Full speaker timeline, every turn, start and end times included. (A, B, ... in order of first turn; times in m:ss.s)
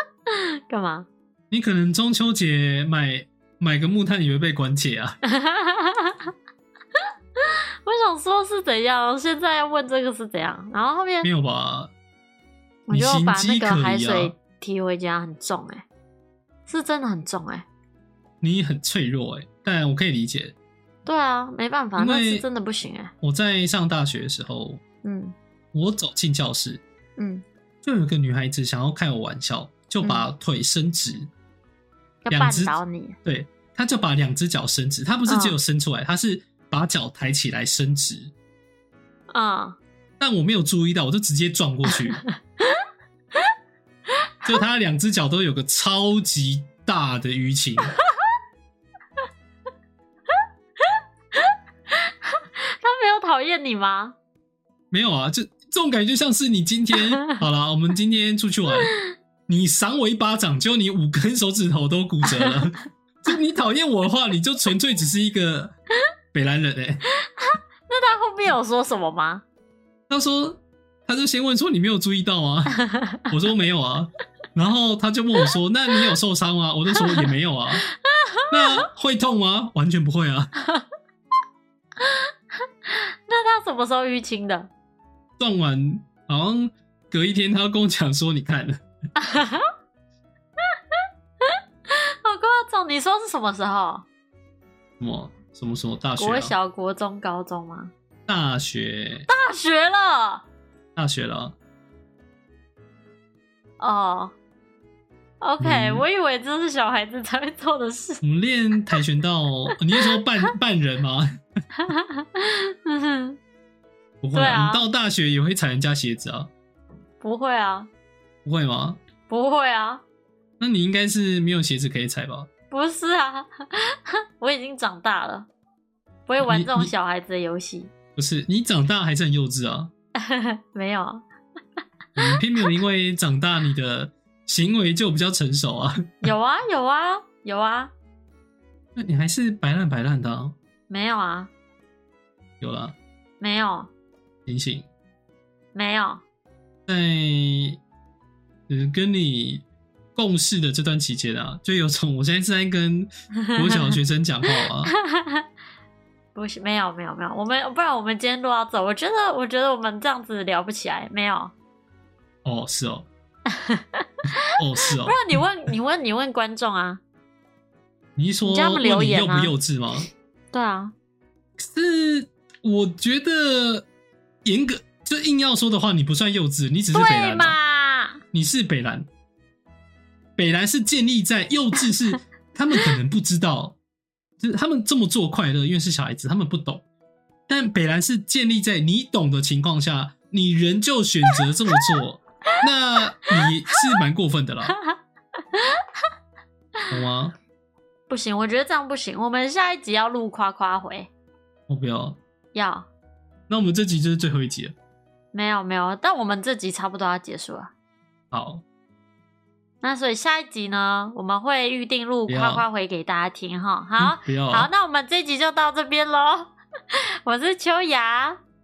0:00.3-0:01.1 A
0:01.5-0:05.2 B
0:05.2-0:06.2 A
0:07.8-0:11.3 A
0:11.2-0:11.9 B
0:12.9-0:15.8 A
0:12.9-0:14.3 B
0:16.7-0:17.6 A
0:18.4-0:20.5 B
0:21.0-0:23.1 A
0:22.0-0:22.4 B
0:23.2-0:24.8 B
0:25.0-0:25.3 A
0:25.7-0:26.8 B
0:27.2-0:27.4 A
0:27.8-0:31.3 B
0:32.2-0:33.2 A
0:32.3-0:38.3 B
0:35.3-0:35.6 A
0:39.3-0:39.8 A
0:40.2-0:42.2 B
0:42.2-0:42.8 A
0:44.4-0:48.0 B
0:50.8-0:54.1 A
0:54.9-0:58.9 B
0:57.0-0:57.4 A
0:58.7-0:59.0 A
0:59.5-1:05.7 B
1:02.2-1:02.6 A
1:06.3-1:07.0 B
1:07.4-1:09.4 A
1:10.1-1:17.8 B
1:12.8-1:13.3 A
1:17.0-1:17.3 A
1:18.0-1:18.8 A
1:18.5-1:20.5 B
1:22.0-1:22.2 A
1:22.9-1:24.7 A
1:25.4-1:28.8 B
1:29.2-1:29.7 A
1:31.4-1:34.0 A
1:35.0-1:36.5 B
1:36.2-1:37.9 A
1:38.3-1:39.3 B
1:39.3-1:40.4 A
1:41.0-1:41.5 B
1:43.8-1:44.3 A
1:45.4-1:48.2 A
1:45.6-1:46.0 B
1:48.2-1:51.3 B
1:51.7-1:53.4 A
1:54.2-1:56.5 B
1:54.3-1:54.8 A
1:57.2-1:57.9 A
1:58.4-1:59.0 B
1:59.3-2:00.0 A
2:00.6-2:02.5 B
2:02.7-2:05.5 A
2:06.3-2:07.9 A
2:06.4-2:06.9 B
2:08.2-2:09.9 B
2:10.1-2:11.2 A
2:12.2-2:16.3 B
2:16.2-2:17.9 A
2:19.0-2:20.5 B
2:20.9-2:21.5 A
2:22.6-2:22.9 B
2:23.4-2:23.9 A
2:24.4-2:24.8 B
2:25.7-2:26.2 A
2:26.9-2:27.8 B
2:28.7-2:29.6 B
2:30.1-2:34.9 B
2:33.4-2:35.4 A
2:36.3-2:41.5 A
2:42.4-2:43.1 B
2:43.5-2:44.4 A
2:44.6-2:45.4 B
2:45.0-2:47.0 A
2:48.2-2:50.1 B
2:48.4-2:49.5 A
2:50.5-2:50.9 A
2:51.6-2:53.8 B
2:54.4-2:57.6 B
2:56.9-2:58.2 A
2:58.3-2:59.1 B
3:00.4-3:03.8 B
3:04.4-3:06.8 B
3:07.5-3:14.8 B
3:15.5-3:15.8 A
3:16.9-3:17.3 B
3:18.1-3:21.1 A
3:21.7-3:22.2 B
3:22.5-3:22.9 A
3:23.5-3:24.7 B
3:25.3-3:27.7 A
3:28.3-3:28.6 B
3:29.8-3:36.5 A
3:32.3-3:32.6 B
3:34.0-3:34.7 B
3:37.2-3:38.4 A